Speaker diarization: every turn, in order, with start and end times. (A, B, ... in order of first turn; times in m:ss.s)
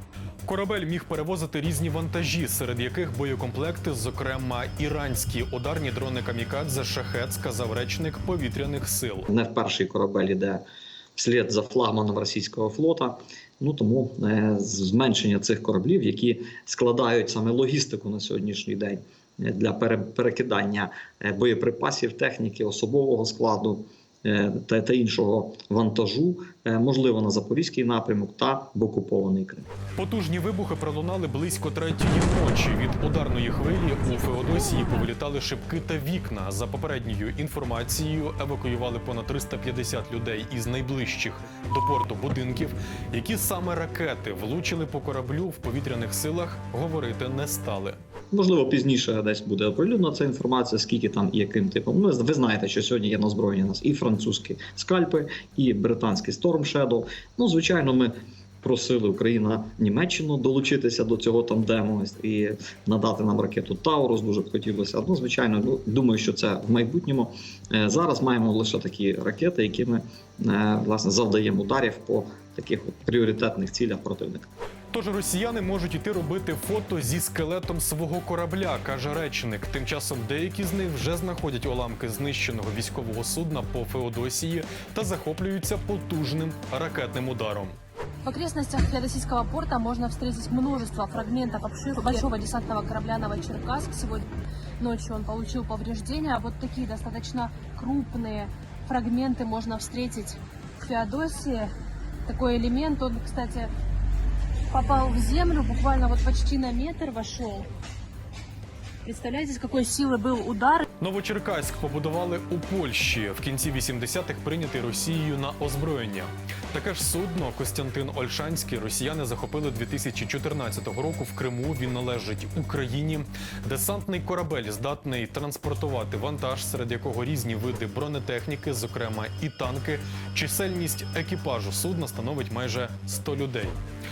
0:00.4-0:09.3 A
0:09.3-0:29.7 B
0:30.0-0:48.0 A
0:48.3-1:14.5 B
1:14.9-1:27.8 A
1:28.2-1:34.3 C
1:34.8-1:41.7 C
1:42.2-1:43.7 C
1:44.7-1:47.7 C
1:49.0-1:50.8 C
1:51.0-2:13.8 A